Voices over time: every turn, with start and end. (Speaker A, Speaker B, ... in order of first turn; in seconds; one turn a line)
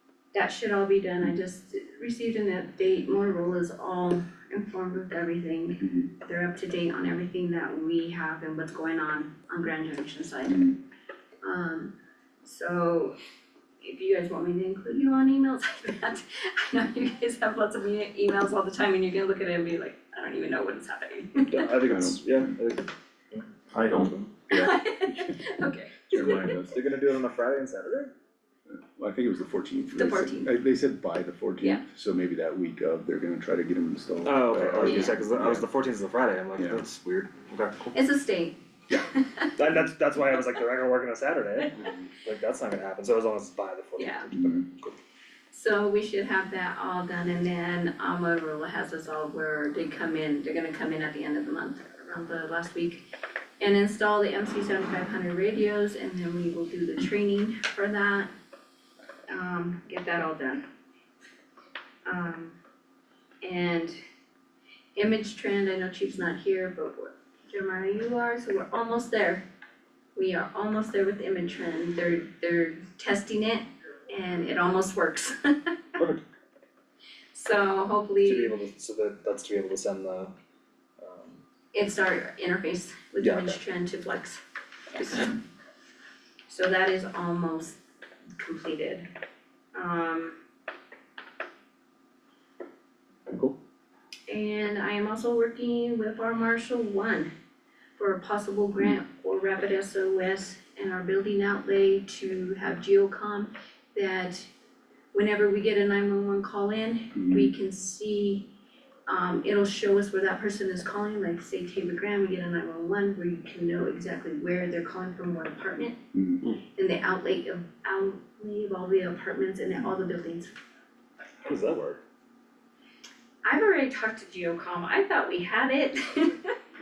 Speaker A: 0.3-10.7
Speaker B: 5.8-6.1
Speaker B: 10.5-10.8
Speaker A: 11.4-13.2
Speaker A: 13.8-21.7
Speaker C: 21.5-24.3
Speaker B: 21.8-22.5
Speaker B: 23.7-25.3
Speaker A: 24.5-26.6
Speaker B: 26.1-26.8
Speaker C: 26.6-28.1
Speaker B: 28.7-35.7
Speaker A: 29.9-30.5
Speaker C: 34.2-38.0
Speaker A: 34.8-35.2
Speaker A: 37.9-39.5
Speaker C: 39.6-44.9
Speaker A: 44.0-44.3
Speaker B: 44.3-44.7
Speaker A: 45.5-58.3
Speaker A: 59.3-60.6
Speaker A: 62.1-62.6
Speaker A: 63.4-64.0
Speaker A: 65.0-69.5
Speaker A: 70.2-75.7
Speaker C: 76.0-76.2
Speaker A: 77.3-78.5
Speaker C: 78.2-80.3
Speaker C: 81.0-81.4
Speaker A: 81.7-84.4
Speaker C: 83.2-83.6
Speaker A: 84.9-85.4
Speaker A: 86.5-87.8
Speaker A: 88.4-89.1
Speaker A: 89.8-90.3
Speaker B: 93.3-93.6
Speaker A: 94.3-97.3
Speaker A: 98.0-104.5
Speaker A: 105.1-108.5
Speaker B: 107.2-107.5
Speaker A: 109.1-116.0
Speaker B: 116.1-116.4
Speaker A: 116.8-120.5
Speaker C: 121.4-122.0
Speaker A: 123.4-126.5